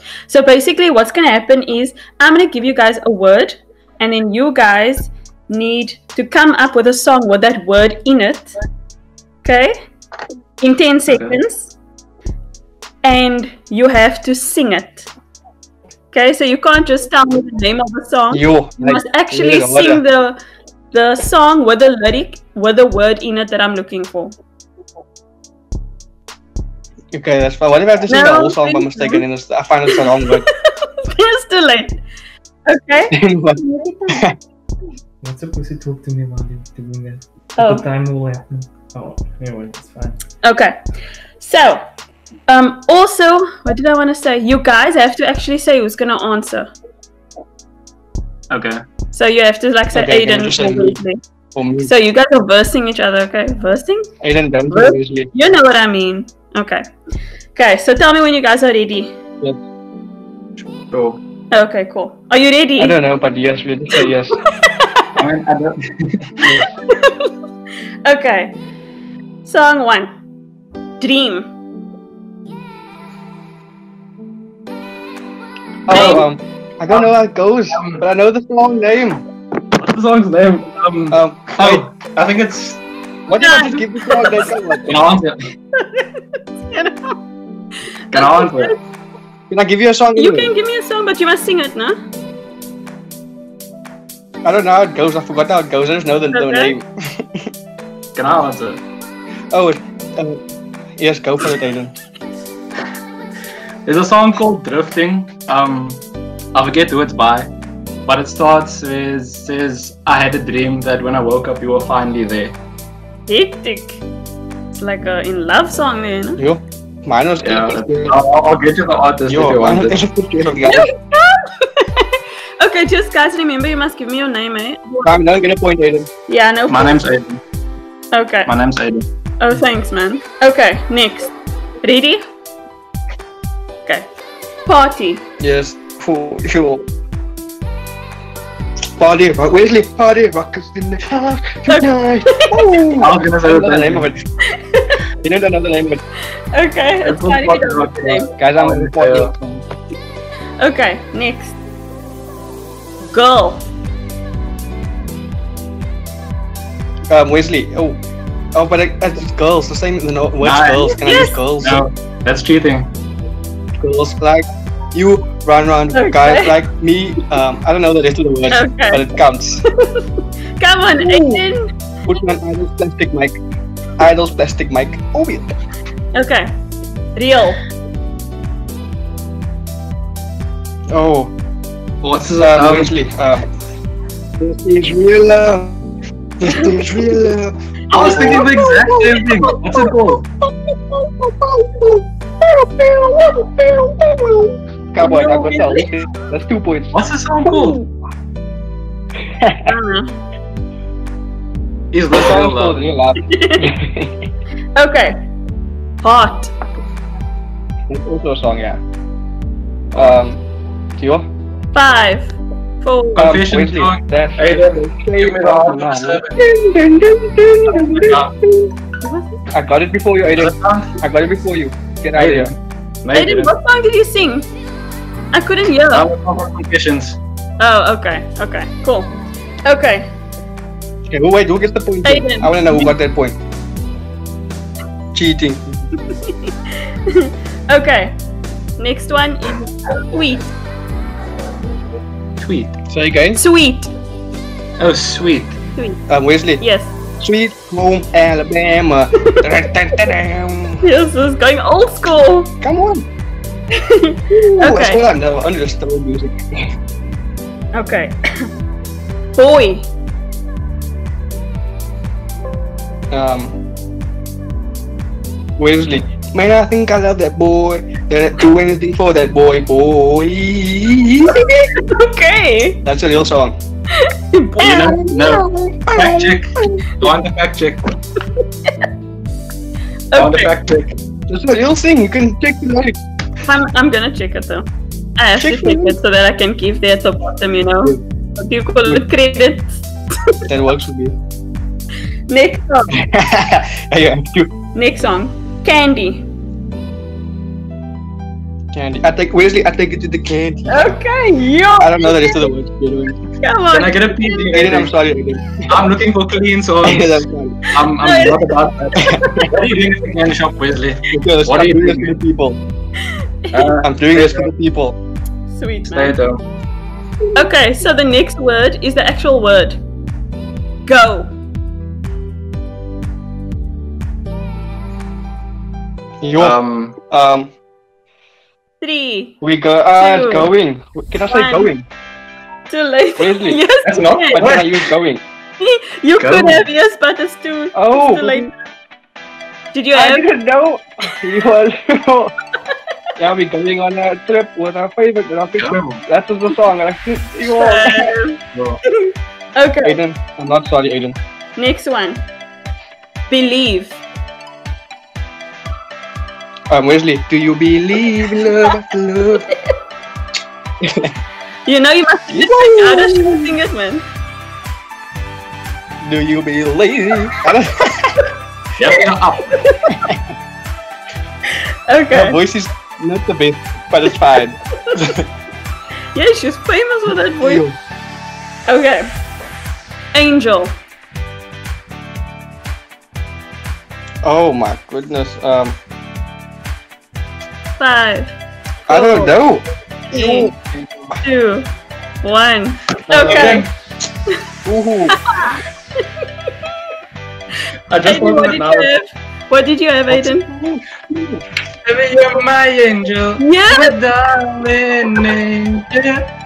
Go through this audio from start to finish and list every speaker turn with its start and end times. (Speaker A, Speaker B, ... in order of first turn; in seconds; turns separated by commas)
Speaker A: 0.3-8.5, Speaker A: 9.4-9.8, Speaker A: 10.6-11.7, Speaker B: 11.1-11.4, Speaker A: 13.0-15.1, Speaker A: 16.1-20.4, Speaker C: 18.3-20.0, Speaker A: 20.9-24.4, Speaker C: 27.1-30.5, Speaker A: 28.1-29.2, Speaker A: 29.9-32.0, Speaker A: 32.7-34.2, Speaker C: 33.1-34.4, Speaker D: 35.2-40.2, Speaker A: 37.6-37.9, Speaker A: 40.4-40.8, Speaker A: 41.4-41.8, Speaker A: 42.5-46.7, Speaker B: 48.5-48.8, Speaker A: 49.1-51.2, Speaker C: 49.9-51.0, Speaker C: 51.5-51.9, Speaker A: 51.8-54.1, Speaker C: 54.2-55.3, Speaker A: 54.7-56.9, Speaker A: 57.5-59.2, Speaker B: 60.9-61.2, Speaker A: 61.5-63.0, Speaker C: 62.8-64.4, Speaker A: 64.6-65.1, Speaker B: 65.2-66.5, Speaker A: 66.9-67.3, Speaker A: 68.0-68.6, Speaker A: 69.4-70.1, Speaker A: 71.0-71.5, Speaker C: 75.9-79.2, Speaker A: 75.9-76.3, Speaker B: 77.7-78.0, Speaker B: 79.8-82.8, Speaker C: 81.1-81.8, Speaker C: 83.3-84.9, Speaker A: 83.4-84.8, Speaker B: 84.9-85.4, Speaker A: 85.8-87.2, Speaker B: 88.1-88.7, Speaker A: 88.1-88.8, Speaker C: 89.5-90.5, Speaker A: 90.2-92.0, Speaker C: 94.4-97.4, Speaker A: 96.3-96.7, Speaker B: 98.2-98.8, Speaker C: 99.5-100.4, Speaker C: 101.0-101.9, Speaker B: 103.9-106.0, Speaker B: 106.5-107.5, Speaker B: 108.1-112.6, Speaker A: 113.3-114.0, Speaker A: 114.7-116.4, Speaker C: 116.4-118.2, Speaker B: 117.4-120.0, Speaker C: 119.3-120.9, Speaker A: 120.7-125.2, Speaker C: 125.0-126.1, Speaker A: 126.3-127.1, Speaker B: 126.7-127.4, Speaker A: 128.1-128.5, Speaker B: 128.5-129.0, Speaker A: 129.4-132.3, Speaker A: 134.7-135.2, Speaker C: 135.4-136.9, Speaker C: 139.0-144.2, Speaker A: 141.7-142.8, Speaker B: 143.0-144.1, Speaker A: 144.6-145.0, Speaker C: 145.2-146.0, Speaker A: 146.5-148.3, Speaker B: 147.0-149.6, Speaker C: 148.4-149.3, Speaker A: 150.6-151.6, Speaker A: 153.1-153.6, Speaker C: 157.1-158.0, Speaker C: 158.6-161.8, Speaker B: 160.4-161.0, Speaker A: 161.0-161.4, Speaker B: 161.6-162.9, Speaker C: 163.8-169.6, Speaker A: 165.9-166.6, Speaker A: 168.5-169.0, Speaker A: 169.8-170.1, Speaker A: 170.6-171.7, Speaker C: 171.0-171.4, Speaker C: 172.1-173.4, Speaker C: 174.0-175.6, Speaker A: 176.1-176.5, Speaker A: 177.2-177.6, Speaker C: 180.9-181.3, Speaker B: 182.0-183.0, Speaker C: 182.4-183.5, Speaker C: 184.4-185.8, Speaker C: 186.4-189.3, Speaker A: 186.5-186.7, Speaker B: 187.9-190.3, Speaker C: 191.1-197.9, Speaker A: 195.0-195.9, Speaker B: 196.9-197.8, Speaker C: 199.4-199.7, Speaker A: 199.7-200.1, Speaker B: 201.9-202.8, Speaker C: 202.1-204.2, Speaker A: 203.2-203.7, Speaker A: 204.8-205.2, Speaker A: 206.0-206.5, Speaker C: 207.9-208.8, Speaker C: 209.9-210.4, Speaker C: 211.0-211.3, Speaker A: 211.7-213.2, Speaker B: 213.2-216.3, Speaker C: 213.2-218.7, Speaker B: 217.8-218.3, Speaker C: 219.5-222.5, Speaker B: 220.3-221.0, Speaker B: 222.2-223.5, Speaker A: 223.1-224.5, Speaker A: 225.3-226.1, Speaker B: 225.9-227.2, Speaker A: 227.6-229.1, Speaker A: 229.7-230.1, Speaker C: 231.1-233.4, Speaker A: 232.0-232.9, Speaker C: 235.1-235.8, Speaker A: 236.1-238.1, Speaker A: 238.8-240.5, Speaker B: 242.4-242.7, Speaker C: 242.9-243.4, Speaker A: 243.3-243.9, Speaker B: 244.8-245.6, Speaker C: 246.1-246.6, Speaker A: 246.6-246.9, Speaker C: 247.2-250.8, Speaker A: 250.8-252.5, Speaker C: 252.6-253.1, Speaker A: 253.7-255.0, Speaker C: 254.3-256.7, Speaker A: 257.7-258.5, Speaker A: 259.4-259.9, Speaker C: 263.1-263.6, Speaker C: 265.6-271.3, Speaker A: 271.3-272.8, Speaker C: 272.9-273.6, Speaker A: 274.0-275.0, Speaker B: 274.6-278.0, Speaker C: 274.7-277.1, Speaker A: 280.1-280.5, Speaker B: 280.1-281.0, Speaker C: 281.3-283.0, Speaker A: 283.4-289.9, Speaker C: 285.4-286.0, Speaker C: 290.5-291.2, Speaker A: 292.3-293.0, Speaker C: 292.9-294.5, Speaker A: 294.7-296.3, Speaker C: 298.7-301.0, Speaker A: 300.7-302.5, Speaker C: 301.8-303.2, Speaker A: 303.4-304.5, Speaker B: 303.7-304.9, Speaker C: 304.5-305.9, Speaker B: 305.7-312.2, Speaker C: 306.8-307.7, Speaker A: 307.9-309.6, Speaker C: 309.0-309.5, Speaker C: 311.1-312.6, Speaker B: 313.5-314.5, Speaker C: 313.8-315.0, Speaker A: 315.5-316.2, Speaker B: 315.9-316.4, Speaker A: 317.4-319.8, Speaker A: 320.9-321.3, Speaker C: 326.2-327.5, Speaker B: 326.4-327.0, Speaker A: 328.8-329.4, Speaker C: 329.4-331.9, Speaker A: 330.0-330.5, Speaker A: 331.3-331.7, Speaker A: 332.7-334.4, Speaker C: 333.2-333.6, Speaker B: 333.9-334.9, Speaker C: 334.3-335.2, Speaker A: 335.6-338.5, Speaker B: 336.2-336.6, Speaker C: 337.7-338.5, Speaker A: 339.7-340.3, Speaker C: 339.9-342.3, Speaker C: 343.2-348.1, Speaker B: 345.6-346.0, Speaker A: 347.4-350.0, Speaker B: 348.5-348.8, Speaker C: 349.8-351.2, Speaker A: 351.6-352.2, Speaker A: 353.3-354.0, Speaker C: 356.7-359.5, Speaker C: 360.8-361.1, Speaker A: 361.7-364.0, Speaker C: 362.3-363.5, Speaker C: 366.0-368.2, Speaker B: 368.8-369.5, Speaker A: 369.0-370.1, Speaker C: 369.9-370.2, Speaker A: 371.9-372.4, Speaker C: 372.1-375.2, Speaker A: 376.1-377.6, Speaker C: 377.4-377.8, Speaker A: 378.7-379.1, Speaker A: 380.1-380.8, Speaker C: 384.2-385.8, Speaker A: 387.8-388.4, Speaker A: 388.9-389.4, Speaker C: 388.9-390.5, Speaker A: 390.1-390.5, Speaker B: 390.7-391.1, Speaker A: 391.2-391.7, Speaker A: 392.2-393.7, Speaker C: 393.1-393.7, Speaker B: 393.1-393.7, Speaker C: 394.7-395.2, Speaker A: 395.1-395.6, Speaker B: 397.9-398.9, Speaker A: 398.0-400.5, Speaker C: 400.1-401.4, Speaker B: 401.9-406.2, Speaker A: 403.4-404.0